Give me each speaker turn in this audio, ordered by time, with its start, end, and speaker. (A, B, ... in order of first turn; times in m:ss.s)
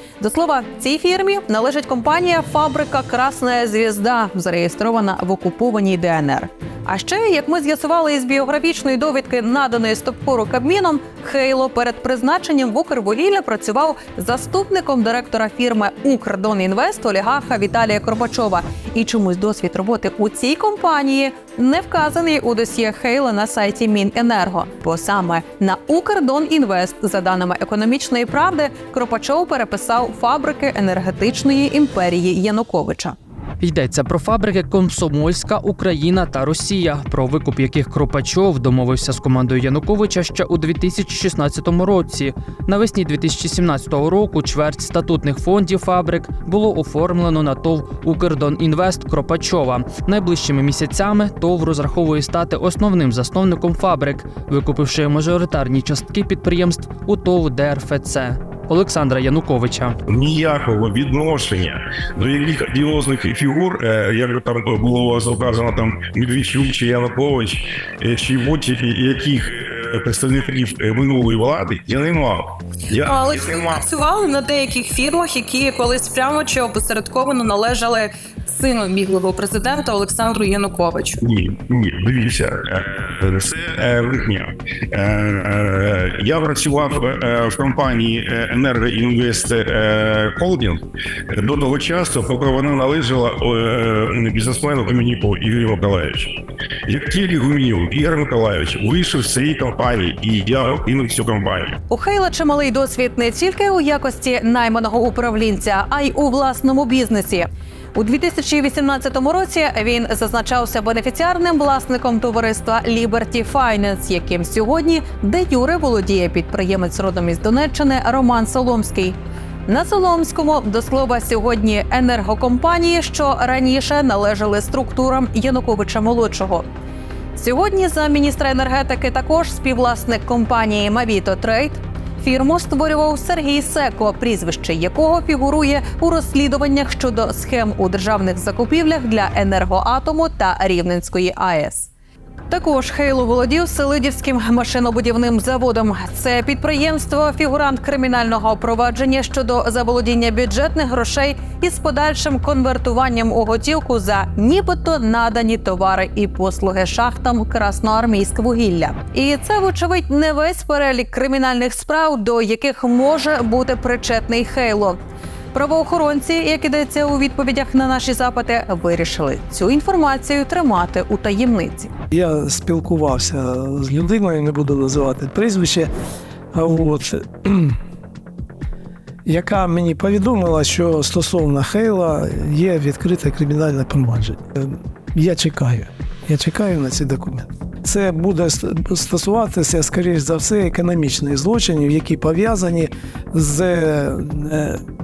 0:00.2-0:33.2 A
0:33.6-1:00.0 B
1:00.1-1:13.9 C
1:13.1-1:21.2 D
1:15.3-1:16.5 A
1:21.2-1:41.8 C
1:41.9-2:06.7 A
2:07.4-2:21.9 A
2:22.5-2:45.0 A
2:45.5-2:51.9 A
2:52.1-2:55.9 E
2:56.5-2:57.8 E
2:59.3-3:14.8 E